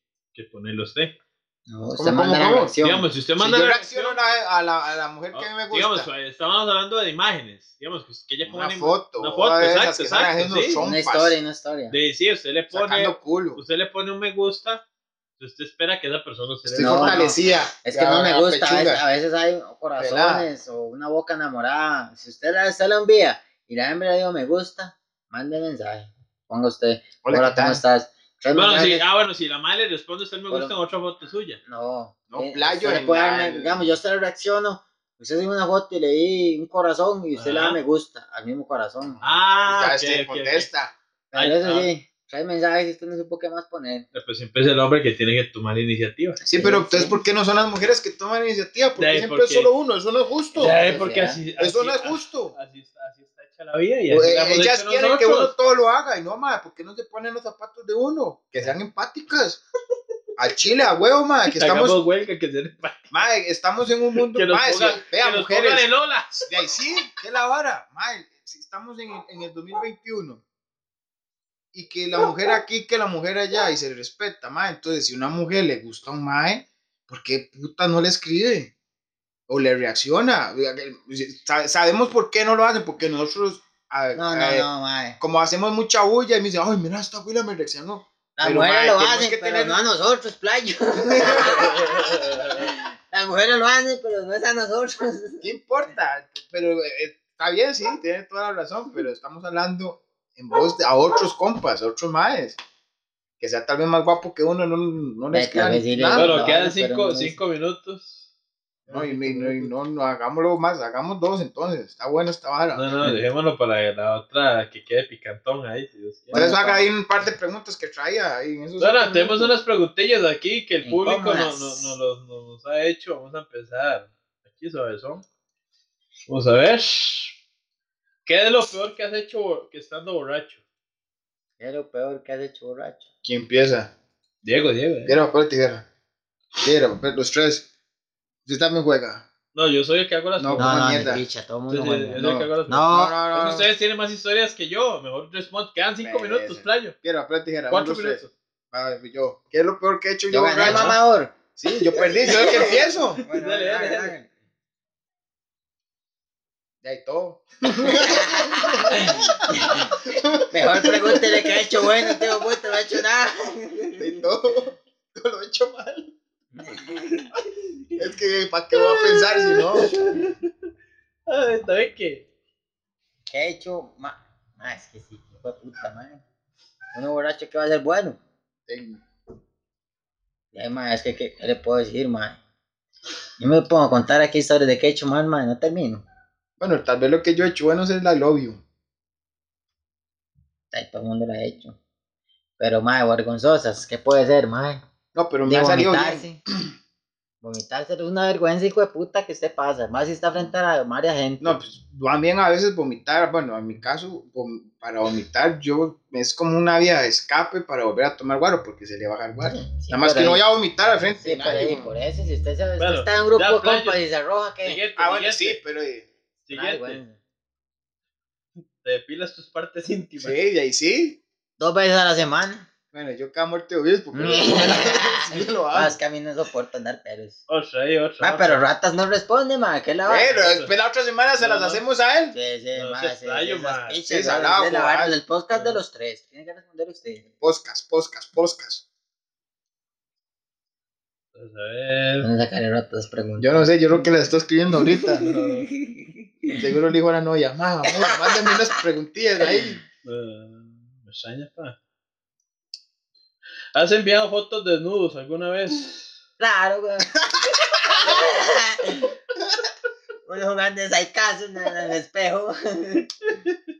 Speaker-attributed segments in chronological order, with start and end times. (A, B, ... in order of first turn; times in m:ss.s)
0:00.3-0:01.2 A
0:01.7-0:03.1 B
0:01.9-0:02.8 C
0:02.8-0:04.2 A
0:03.4-0:06.1 C
0:05.3-0:10.8 A
0:08.4-0:11.4 C
0:10.8-0:12.0 B
0:11.9-0:14.8 A
0:12.7-0:13.6 C
0:15.4-0:17.3 A
0:16.6-0:19.0 C
0:16.8-0:29.0 B
0:20.0-0:20.5 C
0:27.2-0:27.8 C
0:28.5-0:31.6 A
0:31.6-0:39.2 B
0:32.3-0:33.9 C
0:37.3-0:37.8 A
0:39.2-0:40.7 A
0:39.6-0:41.0 C
0:41.3-0:41.9 A
0:41.3-0:44.0 B
0:44.1-0:46.4 A
0:46.4-0:47.2 B
0:46.4-0:50.8 C
0:49.0-0:49.7 A
0:50.5-0:55.5 A
0:50.6-0:51.4 B
0:51.6-0:52.5 C
0:54.1-0:59.6 C
1:00.4-1:02.0 C
1:01.5-1:03.1 A
1:03.1-1:05.9 C
1:04.2-1:06.4 A
1:06.4-1:10.4 C
1:11.7-1:18.7 C
1:19.5-1:24.7 C
1:24.1-1:25.2 B
1:25.2-1:29.8 C
1:28.4-1:35.5 B
1:31.0-1:31.8 C
1:31.8-1:32.6 A
1:35.4-1:42.6 C
1:43.4-1:46.5 C
1:45.3-1:47.4 B
1:46.1-1:48.2 A
1:48.9-1:49.7 A
1:48.9-1:52.9 C
1:52.8-1:56.4 A
1:56.3-1:56.9 B
1:56.3-1:59.5 C
1:58.8-2:05.2 A
2:00.8-2:01.9 B
2:06.3-2:07.4 A
2:08.2-2:10.6 A
2:11.6-2:13.0 B
2:13.2-2:13.9 C
2:14.4-2:15.2 A
2:15.0-2:15.8 C
2:16.6-2:17.7 C
2:18.4-2:19.2 C
2:19.5-2:21.1 A
2:20.4-2:21.2 C
2:20.6-2:23.1 B
2:21.7-2:26.9 A
2:22.2-2:23.7 C
2:26.0-2:30.9 C
2:27.7-2:28.3 A
2:30.3-2:31.3 B
2:30.6-2:31.0 A
2:31.6-2:33.2 C
2:31.9-2:34.3 B
2:33.3-2:34.2 A
2:36.8-2:42.6 C
2:37.8-2:44.2 B
2:44.0-2:46.1 C
2:46.6-2:47.3 B
2:48.0-2:49.9 C
2:48.7-2:50.5 A
2:51.3-2:52.2 A
2:53.3-2:56.2 B
2:56.9-2:58.2 B
2:58.7-2:59.0 C
3:00.5-3:02.4 B
3:03.4-3:06.0 B
3:06.6-3:08.6 C
3:10.7-3:11.8 B
3:12.6-3:14.8 B
3:15.1-3:16.3 C
3:15.4-3:16.4 B
3:17.4-3:21.6 B
3:21.4-3:31.8 C
3:29.8-3:30.4 B
3:31.2-3:34.8 B
3:32.8-3:34.0 A
3:34.6-3:35.6 A
3:35.0-3:36.1 C
3:36.5-3:37.0 A
3:36.5-3:37.2 B
3:38.8-3:40.4 A
3:40.2-3:41.2 C
3:41.6-3:42.7 B
3:42.9-3:46.0 C
3:44.1-3:47.4 B
3:47.5-3:48.6 A
3:48.2-3:50.5 B
3:50.0-3:52.4 C
3:50.4-3:50.7 A
3:51.4-3:51.8 A
3:52.3-3:57.2 B
3:52.8-3:54.0 A
3:54.1-3:55.1 C
3:55.5-3:55.8 A
3:57.4-3:58.8 C
4:01.3-4:02.3 A
4:02.2-4:04.0 B
4:03.4-4:05.2 C
4:04.9-4:06.6 B
4:05.2-4:05.7 A
4:06.5-4:09.8 C
4:07.8-4:08.8 B
4:10.0-4:11.8 A
4:13.7-4:16.2 A
4:16.4-4:19.1 B
4:20.2-4:23.1 B